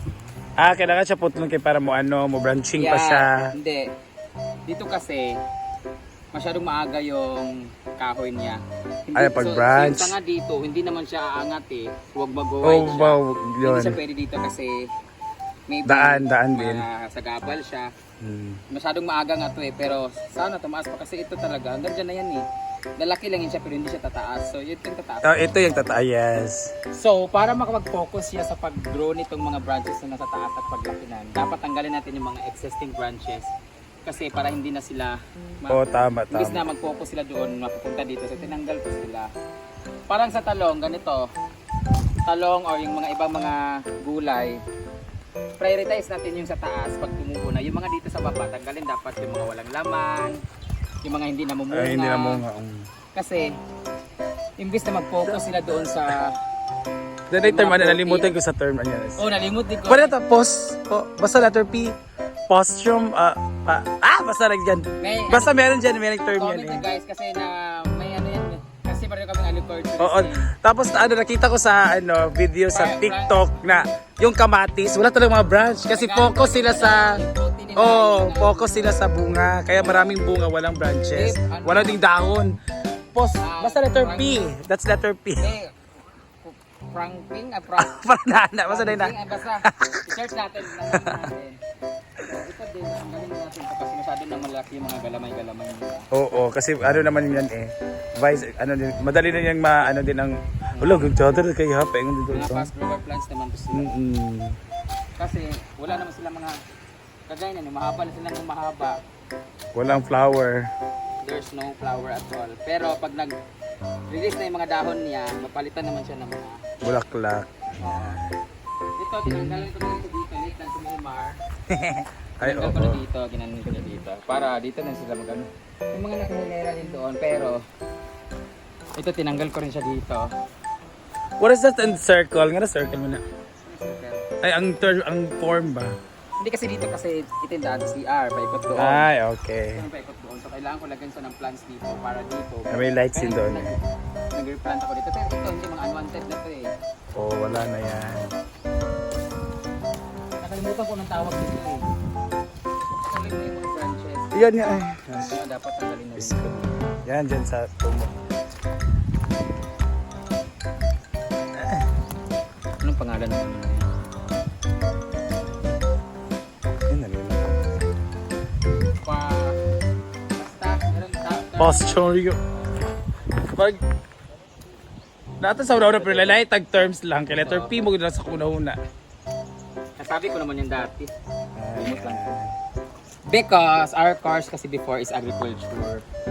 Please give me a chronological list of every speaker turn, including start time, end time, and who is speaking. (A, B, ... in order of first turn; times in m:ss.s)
0:00.6-0:03.5 A
0:02.8-0:03.9 B
0:04.7-0:05.4 B
0:06.3-0:14.9 B
0:09.2-0:10.2 A
0:12.6-0:14.0 A
0:15.7-0:17.9 B
0:15.9-0:16.8 A
0:18.2-0:18.6 A
0:18.7-0:22.4 B
0:23.0-0:25.8 B
0:25.2-0:26.7 A
0:26.9-0:33.5 B
0:34.1-0:35.8 B
0:35.7-0:36.6 A
0:36.3-0:39.3 B
0:40.1-0:41.3 B
0:42.3-0:44.6 B
0:45.6-0:50.4 B
0:51.0-0:52.4 B
0:51.7-0:52.9 A
0:53.1-0:53.6 B
0:54.6-0:56.4 B
0:57.3-0:59.2 A
0:57.4-0:58.3 B
0:59.2-1:00.1 B
0:59.9-1:02.0 A
1:02.5-1:06.8 A
1:05.0-1:05.6 B
1:06.3-1:10.5 B
1:10.0-1:17.2 A
1:12.7-1:13.4 B
1:15.9-1:19.0 B
1:17.8-1:22.6 A
1:19.8-1:20.2 B
1:21.1-1:22.0 B
1:23.1-1:25.6 A
1:23.4-1:24.3 B
1:25.4-1:25.7 B
1:26.4-1:28.0 B
1:27.8-1:30.1 A
1:28.7-1:31.6 B
1:30.7-1:31.3 A
1:32.2-1:36.1 B
1:36.1-1:42.7 A
1:40.8-1:41.1 B
1:42.3-1:43.9 B
1:43.7-1:44.6 A
1:45.2-1:46.6 B
1:47.3-1:49.0 B
1:49.8-1:50.7 A
1:51.2-1:53.3 B
1:54.1-1:56.6 B
1:56.8-1:58.4 A
1:57.8-1:58.2 B
1:59.0-2:01.4 B
2:01.7-2:03.0 A
2:02.4-2:07.6 B
2:09.0-2:10.3 B
2:11.4-2:13.2 A
2:13.7-2:14.3 B
2:14.4-2:16.0 A
2:16.4-2:19.1 B
2:18.8-2:19.8 A
2:19.7-2:23.8 B
2:22.7-2:23.8 A
2:24.3-2:26.7 B
2:27.2-2:28.3 A
2:30.4-2:31.9 B
2:32.9-2:36.4 B
2:34.3-2:35.4 A
2:36.2-2:38.2 A
2:41.6-2:41.9 A
2:42.8-2:43.9 B
2:46.9-2:47.6 A
2:49.0-2:49.6 B
2:50.4-2:52.0 B
2:51.6-2:52.4 A
2:53.4-2:53.8 A
2:55.4-2:58.8 A
2:55.8-2:56.4 B
2:57.3-2:57.7 B
3:00.0-3:01.1 B
3:01.6-3:02.6 A
3:01.8-3:02.4 B
3:03.3-3:06.0 B